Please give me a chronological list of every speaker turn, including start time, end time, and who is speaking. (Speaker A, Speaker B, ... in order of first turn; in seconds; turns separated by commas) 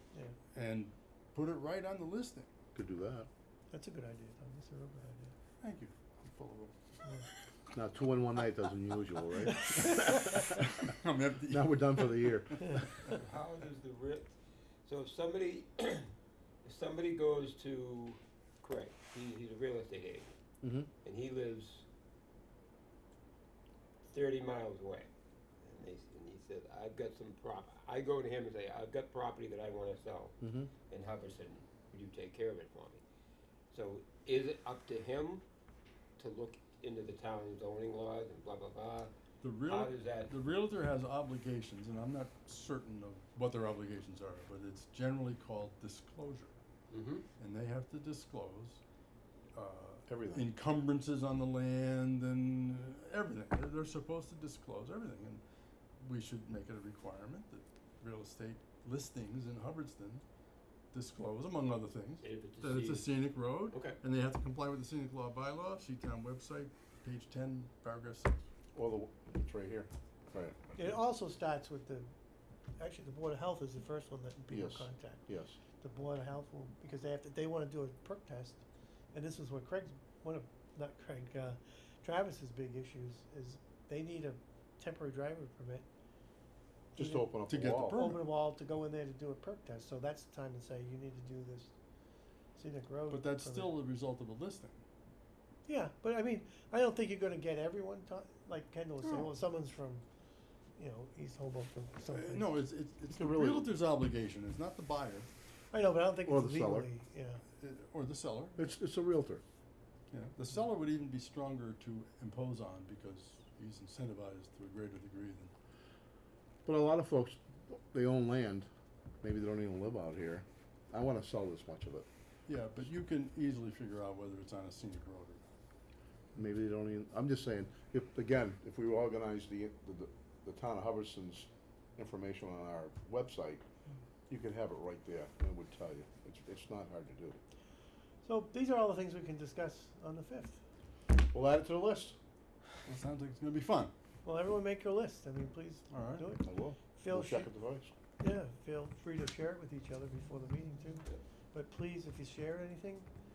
Speaker A: 0.5-2.5, Speaker B: 2.7-3.3, Speaker C: 3.7-5.3, Speaker A: 5.6-6.7, Speaker B: 7.7-10.3, Speaker C: 9.5-10.2, Speaker A: 9.9-12.2, Speaker B: 11.5-13.0, Speaker D: 13.1-16.1, Speaker D: 16.6-20.3, Speaker B: 20.6-20.9, Speaker D: 21.0-21.9, Speaker D: 24.0-25.1, Speaker D: 25.6-30.4, Speaker B: 30.4-30.7, Speaker D: 30.9-33.0, Speaker D: 33.7-35.5, Speaker D: 36.2-39.1, Speaker A: 39.4-46.5, Speaker D: 39.6-40.4, Speaker D: 46.9-47.3, Speaker A: 47.4-48.8, Speaker A: 49.5-55.4, Speaker B: 50.1-50.5, Speaker A: 56.0-60.2, Speaker A: 60.9-68.4, Speaker D: 62.2-64.0, Speaker B: 68.7-70.7, Speaker C: 70.8-72.1, Speaker C: 72.8-75.2, Speaker B: 74.5-75.6, Speaker C: 75.8-85.9, Speaker C: 87.0-91.7, Speaker B: 87.0-88.0, Speaker A: 87.5-88.3, Speaker C: 92.6-93.8, Speaker A: 93.1-94.8, Speaker C: 95.7-100.0, Speaker C: 100.8-102.5, Speaker A: 102.1-105.3, Speaker B: 103.1-103.7, Speaker C: 105.7-107.4, Speaker B: 106.2-106.9, Speaker A: 107.6-108.6, Speaker B: 108.6-109.4, Speaker A: 110.1-115.5, Speaker B: 116.7-118.7, Speaker B: 119.2-122.1, Speaker A: 122.5-125.5, Speaker B: 126.4-133.6, Speaker B: 134.3-137.4, Speaker C: 138.2-140.6, Speaker B: 141.2-142.2, Speaker A: 142.8-143.9, Speaker C: 144.2-147.5, Speaker A: 145.9-146.4, Speaker B: 146.4-147.9, Speaker C: 148.2-153.1